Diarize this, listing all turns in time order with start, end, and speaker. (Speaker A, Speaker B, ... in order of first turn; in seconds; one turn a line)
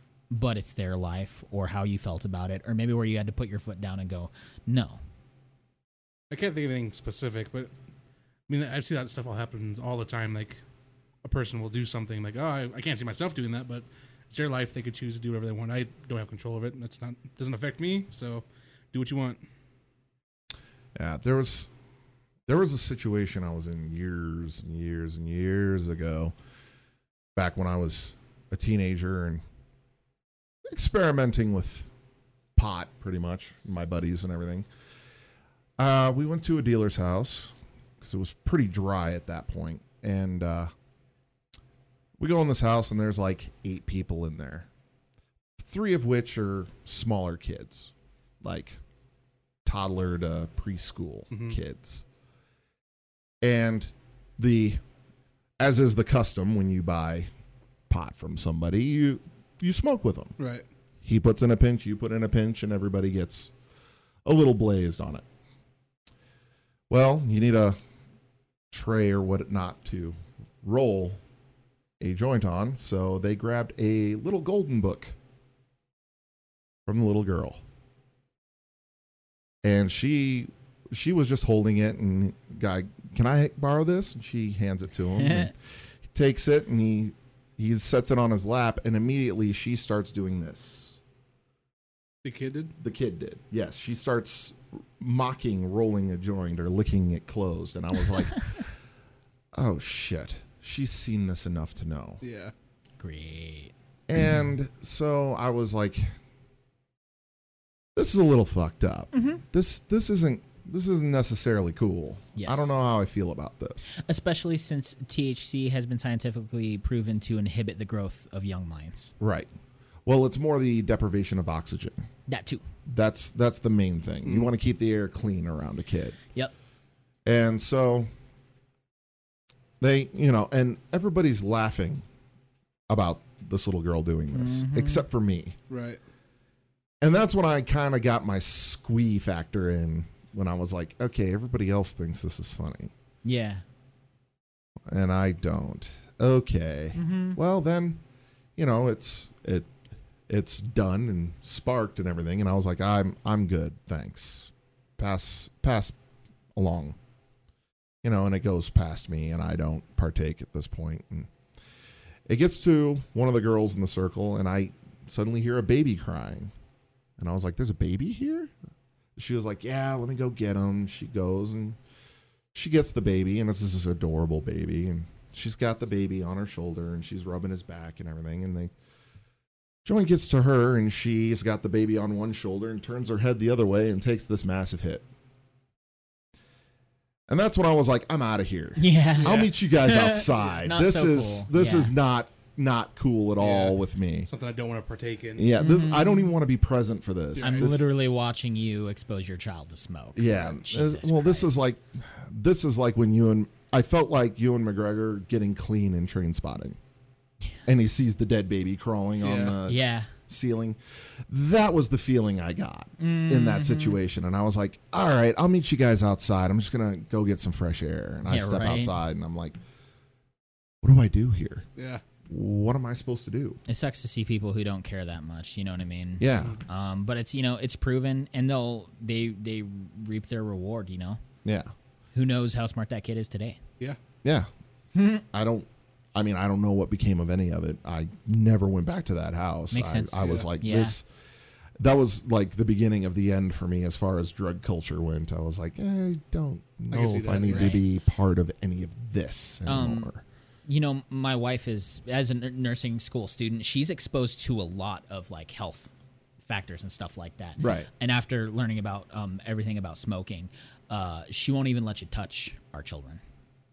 Speaker A: 0.3-5.0
Speaker B: 6.3-7.7
Speaker B: 8.5-10.6
Speaker B: 11.2-19.4
Speaker C: 20.9-21.7
Speaker C: 22.5-26.3
Speaker C: 27.4-29.4
Speaker C: 30.7-31.9
Speaker C: 32.6-34.7
Speaker C: 35.8-40.7
Speaker C: 42.2-44.7
Speaker C: 45.6-48.8
Speaker C: 49.6-52.0
Speaker B: 51.3-51.6
Speaker C: 53.4-54.8
Speaker C: 55.6-57.3
Speaker C: 57.9-60.4
Speaker B: 60.4-60.6
Speaker C: 61.0-63.5
Speaker C: 64.2-65.2
Speaker C: 66.9-67.8
Speaker C: 68.7-71.2
Speaker C: 72.0-75.2
Speaker C: 76.9-77.6
Speaker C: 79.6-85.5
Speaker A: 85.2-85.5
Speaker C: 86.1-91.0
Speaker B: 92.2-92.7
Speaker C: 92.8-98.7
Speaker C: 99.5-102.2
Speaker B: 102.2-102.5
Speaker A: 103.0-103.7
Speaker C: 104.1-106.1
Speaker C: 108.0-113.9
Speaker A: 109.1-109.4
Speaker A: 112.4-112.7
Speaker A: 113.9-119.1
Speaker C: 119.2-119.5
Speaker C: 120.1-122.0
Speaker A: 122.3-122.6
Speaker C: 122.9-126.2
Speaker C: 127.2-128.1
Speaker C: 129.8-132.1
Speaker C: 132.9-135.6
Speaker A: 134.3-135.1
Speaker B: 135.7-136.0
Speaker C: 137.0-142.9
Speaker A: 143.2-143.6
Speaker C: 144.9-148.0
Speaker A: 146.9-147.4
Speaker C: 148.6-149.7
Speaker C: 150.3-155.9
Speaker C: 156.6-157.0
Speaker C: 158.0-161.3
Speaker C: 162.3-166.5
Speaker C: 167.2-168.5
Speaker C: 169.2-171.8
Speaker C: 172.5-178.7
Speaker C: 179.8-185.0
Speaker C: 187.3-194.3
Speaker A: 188.8-191.9
Speaker B: 189.2-189.5
Speaker B: 193.4-195.5
Speaker C: 195.4-197.8
Speaker A: 195.6-196.4
Speaker B: 197.4-197.7
Speaker A: 197.4-201.7
Speaker C: 200.2-206.8
Speaker C: 207.7-219.6
Speaker B: 209.2-209.6
Speaker A: 209.7-210.1
Speaker A: 213.0-214.0
Speaker A: 218.3-219.0
Speaker C: 220.8-221.7
Speaker B: 221.8-222.0
Speaker C: 222.3-223.6
Speaker A: 223.7-231.2
Speaker C: 226.2-226.6
Speaker C: 231.4-231.7
Speaker A: 232.2-233.6
Speaker C: 234.2-234.5
Speaker A: 234.9-235.2
Speaker C: 235.3-241.1
Speaker A: 239.7-241.0
Speaker C: 241.8-250.2
Speaker B: 246.9-247.8
Speaker A: 247.5-247.8
Speaker A: 249.7-250.1
Speaker A: 250.7-255.9
Speaker A: 256.5-263.2
Speaker C: 257.6-257.9